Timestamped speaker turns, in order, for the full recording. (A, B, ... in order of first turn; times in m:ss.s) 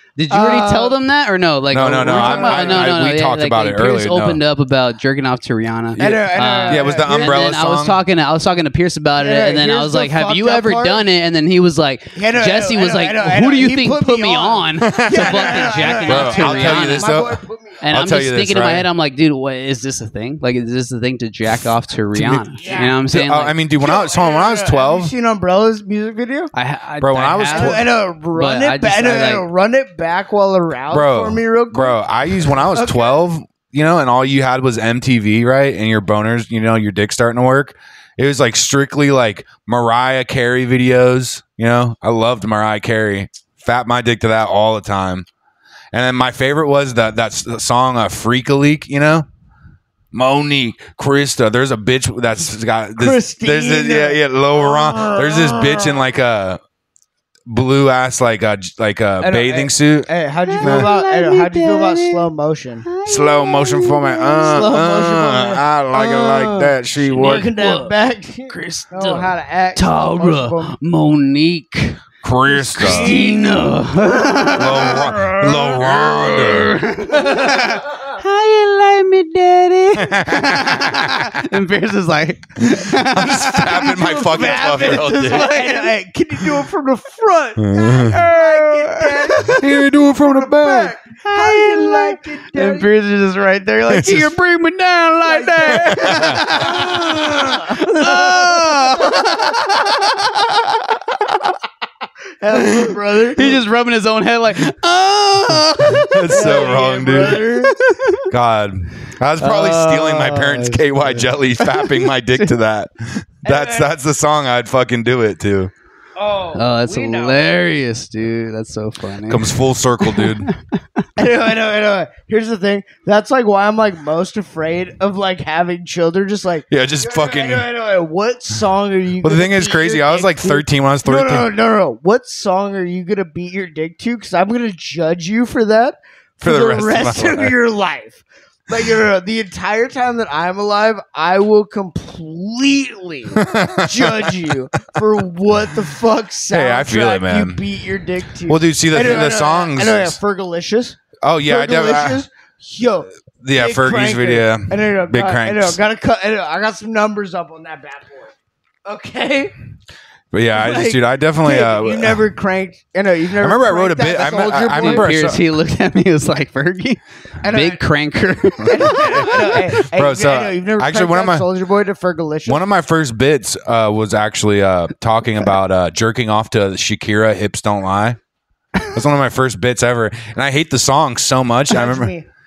0:00.2-0:17.2 A
0:00.3-0:01.0 B
0:01.7-0:04.4 C
0:01.9-0:02.9 B
0:06.0-0:08.0 C
0:06.0-0:07.5 B
0:09.2-0:11.0 B
0:12.2-0:17.8 B
0:14.8-0:18.9 C
0:17.8-0:23.6 A
0:22.1-0:25.1 C
0:22.6-0:23.0 B
0:23.8-0:26.5 B
0:26.5-0:29.5 A
0:27.0-0:27.8 C
0:27.5-0:33.2 B
0:30.9-0:45.3 C
0:45.9-0:49.3 C
0:50.1-0:56.6 C
0:53.0-0:56.1 B
0:57.5-1:00.1 C
0:59.2-1:02.9 B
1:00.4-1:02.3 A
1:00.6-1:00.9 C
1:02.8-1:04.7 A
1:03.1-1:07.5 C
1:04.4-1:10.8 B
1:07.2-1:07.9 A
1:08.5-1:15.3 A
1:12.2-1:13.2 C
1:12.6-1:16.5 B
1:14.6-1:16.8 C
1:15.9-1:25.9 A
1:17.1-1:18.1 B
1:20.0-1:21.4 C
1:22.6-1:25.6 C
1:23.7-1:32.9 B
1:27.6-1:28.3 C
1:27.9-1:29.7 A
1:29.5-1:30.9 C
1:31.2-1:41.4 A
1:33.9-1:34.3 C
1:35.2-1:40.0 B
1:35.8-1:36.5 C
1:42.4-1:43.6 B
1:42.6-1:46.7 A
1:45.8-1:47.4 C
1:46.3-1:47.8 B
1:47.2-1:48.3 A
1:48.3-1:55.7 C
1:49.4-1:52.5 A
1:53.4-1:53.9 B
1:56.2-1:57.6 B
1:56.6-2:01.0 A
1:59.3-2:00.5 C
2:01.2-2:38.3 B
2:06.7-2:07.7 C
2:09.2-2:11.5 C
2:16.4-2:17.6 C
2:23.4-2:24.5 C
2:26.5-2:27.6 C
2:28.5-2:30.2 C
2:31.2-2:32.2 C
2:33.4-2:35.8 C
2:38.8-2:39.5 B
2:40.3-2:42.2 C
2:40.5-2:45.1 B
2:43.4-2:45.4 C
2:44.8-2:49.6 A
2:47.4-2:47.8 B
2:48.6-2:52.6 B
2:49.2-2:51.5 C
2:52.5-2:58.2 C
2:58.9-3:02.1 C
3:01.7-3:02.3 B